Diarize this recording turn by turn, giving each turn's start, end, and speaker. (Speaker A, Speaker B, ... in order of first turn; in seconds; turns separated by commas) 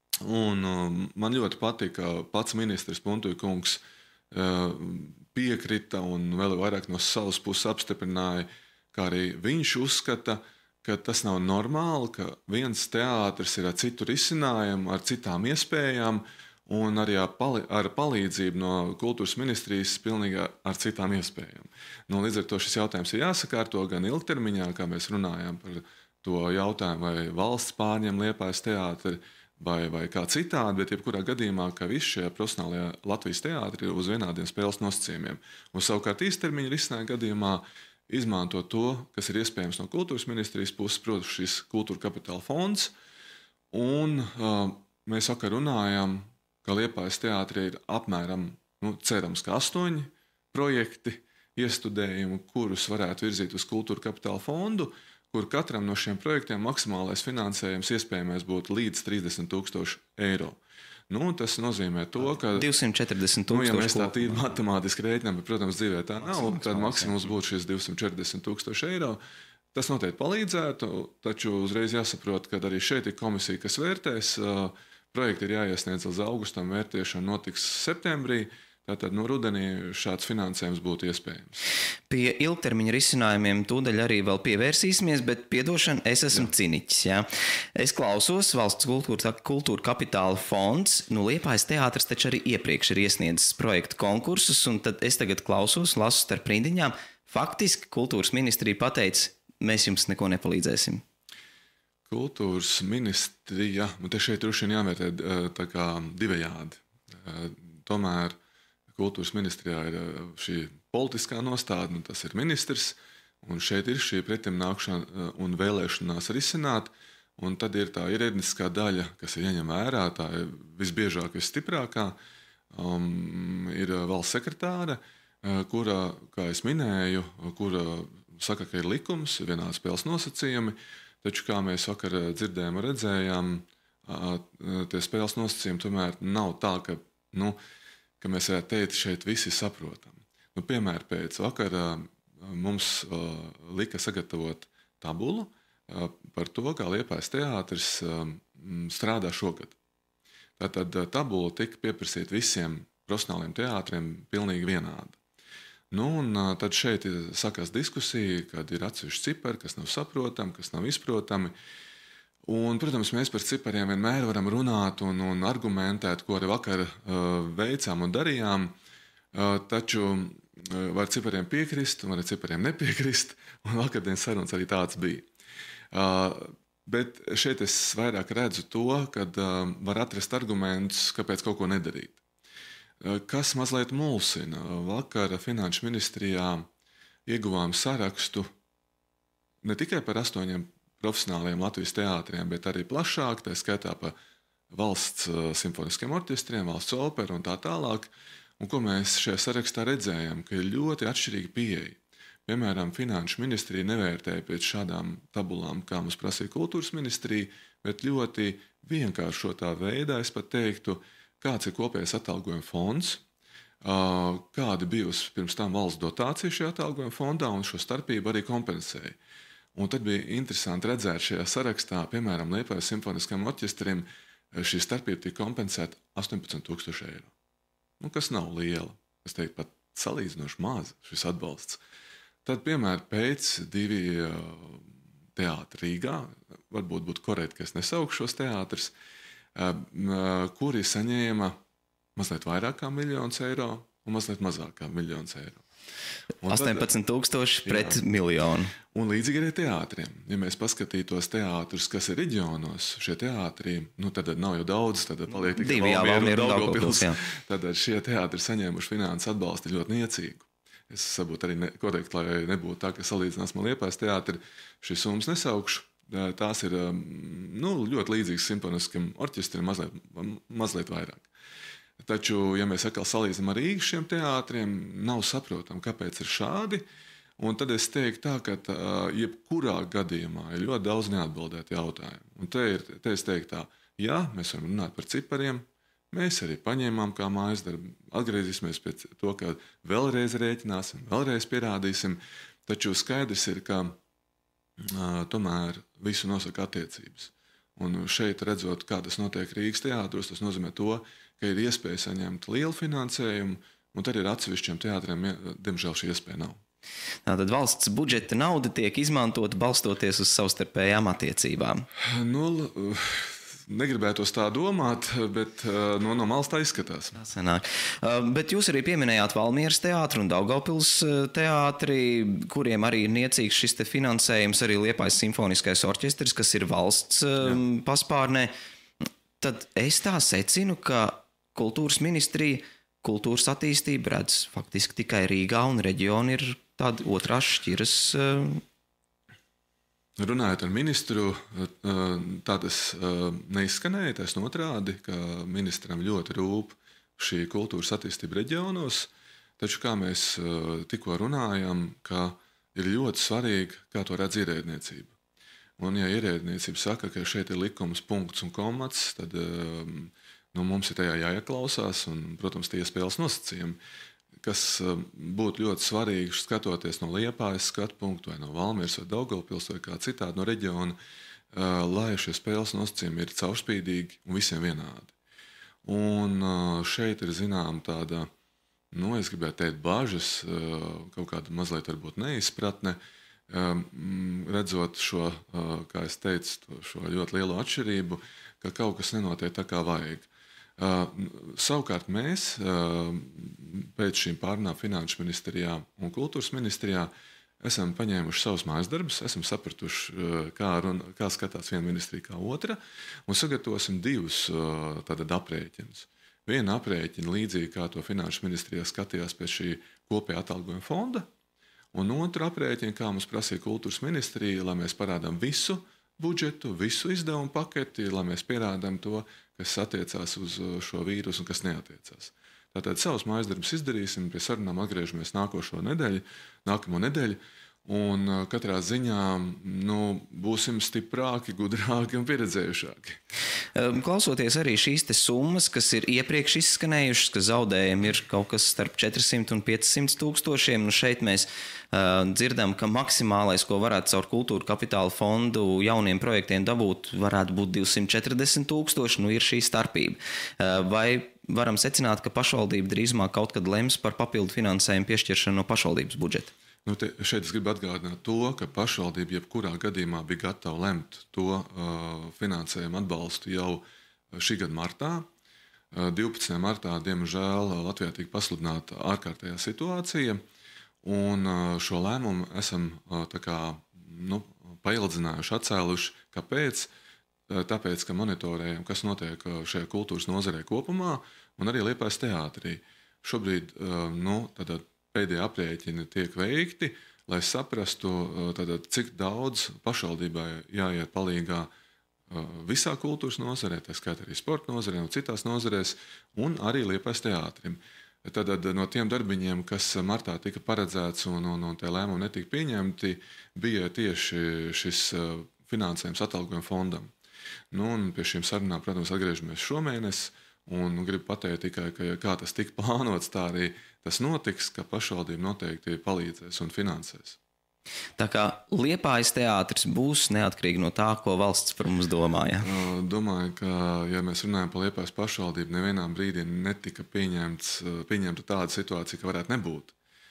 Speaker A: 0.2-42.9, Speaker A: 43.7-62.7, Speaker B: 62.4-64.4, Speaker A: 63.5-69.2, Speaker B: 66.2-67.2, Speaker A: 69.7-81.6, Speaker B: 82.1-101.0, Speaker A: 102.1-108.4, Speaker A: 108.9-122.2, Speaker A: 122.7-137.6, Speaker A: 138.2-149.8, Speaker A: 150.6-155.2, Speaker A: 155.9-161.5, Speaker A: 162.4-168.7, Speaker A: 169.3-175.3, Speaker A: 175.9-182.2, Speaker A: 183.0-186.7, Speaker A: 187.3-188.5, Speaker A: 189.6-194.1, Speaker A: 194.7-213.2, Speaker A: 213.8-219.2, Speaker A: 219.7-227.3, Speaker A: 228.0-231.8, Speaker A: 232.4-238.9, Speaker A: 239.5-241.5, Speaker A: 242.2-245.6, Speaker A: 246.4-246.9, Speaker B: 246.5-248.7, Speaker A: 247.6-248.0, Speaker A: 248.9-271.3, Speaker B: 255.3-257.2, Speaker A: 272.0-276.8, Speaker A: 277.4-293.9, Speaker A: 294.8-306.6, Speaker B: 307.2-311.9, Speaker A: 312.0-317.1, Speaker B: 317.1-328.5, Speaker B: 329.4-338.6, Speaker A: 340.2-355.1, Speaker A: 355.8-363.8, Speaker A: 364.4-371.0, Speaker A: 371.5-375.1, Speaker A: 375.8-378.3, Speaker A: 378.9-383.0, Speaker A: 383.5-411.3, Speaker A: 411.9-433.2, Speaker B: 433.7-456.5, Speaker A: 456.8-465.2, Speaker A: 465.9-470.4, Speaker A: 471.0-476.9, Speaker A: 477.5-491.7, Speaker A: 492.3-507.1, Speaker A: 507.7-517.4, Speaker B: 518.2-522.7, Speaker A: 522.6-529.9